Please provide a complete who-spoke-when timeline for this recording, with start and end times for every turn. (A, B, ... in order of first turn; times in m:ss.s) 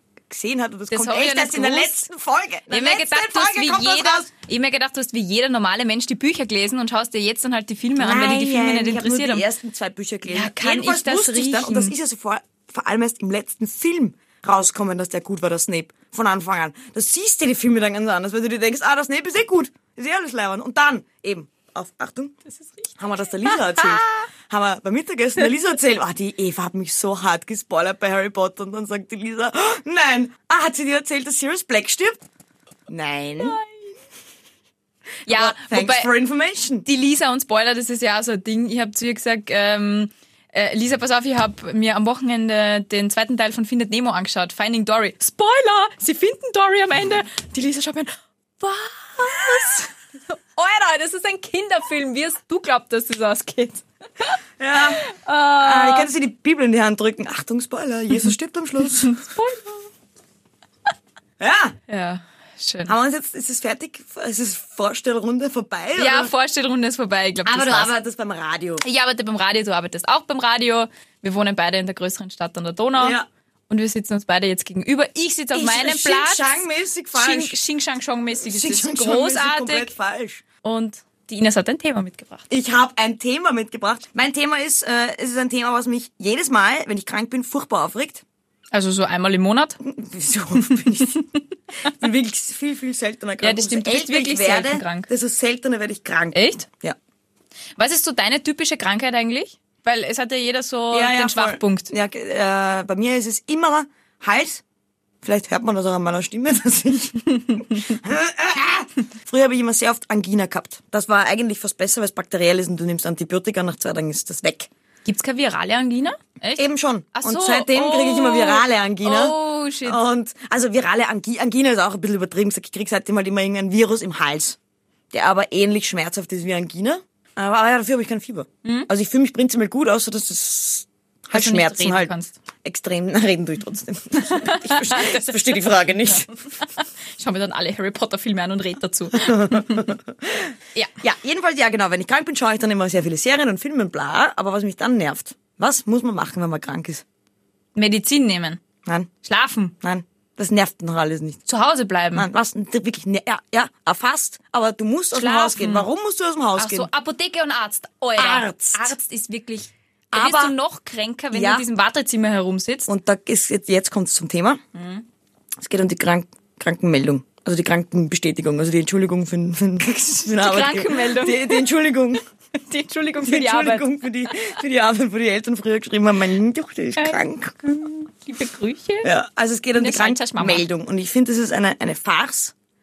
0:00.3-0:04.3 A
0:00.9-0:02.0 B
0:02.7-0:09.4 B
0:08.0-0:22.4 A
0:10.3-0:11.9 B
0:22.6-0:22.9 B
0:23.0-0:32.2 A
0:23.4-0:24.2 B
0:32.9-0:33.6 A
0:33.4-0:33.8 B
0:35.2-0:36.1 B
0:35.3-0:36.8 A
0:36.8-0:56.1 B
0:54.6-0:55.0 A
0:55.6-0:59.2 A
0:59.0-0:59.9 B
1:01.4-1:01.8 A
1:01.9-1:02.9 B
1:02.9-1:06.3 A
1:06.0-1:07.9 B
1:07.4-1:08.8 A
1:08.8-1:19.9 B
1:13.0-1:13.3 A
1:15.5-1:17.6 A
1:18.3-1:20.4 A
1:20.6-1:22.5 B
1:22.5-1:28.2 A
1:28.7-1:29.8 B
1:29.8-1:31.2 A
1:30.7-1:31.3 B
1:31.8-1:37.0 A
1:33.4-1:35.1 B
1:36.3-1:36.7 B
1:37.8-1:41.9 B
1:40.9-1:44.6 A
1:45.2-1:54.7 A
1:47.4-1:47.8 B
1:55.0-2:00.0 B
1:56.6-2:04.6 A
2:05.1-2:12.1 A
2:08.6-2:08.9 B
2:11.3-2:12.3 B
2:12.6-2:16.3 A
2:14.2-2:19.9 B
2:19.2-2:27.0 A
2:27.7-2:28.6 B
2:28.8-2:29.1 A
2:29.2-2:29.7 B
2:29.8-2:31.4 A
2:31.4-2:32.3 B
2:32.1-2:36.9 A
2:35.1-2:35.9 B
2:36.6-2:42.9 B
2:38.2-2:38.9 A
2:40.1-2:40.5 A
2:41.3-2:41.6 A
2:42.9-2:44.6 A
2:44.7-2:45.0 B
2:45.6-2:52.2 A
2:50.4-2:51.7 B
2:52.7-2:53.9 B
2:53.2-2:58.0 A
2:58.2-2:59.1 B
2:59.0-3:02.5 A
2:59.8-3:00.6 B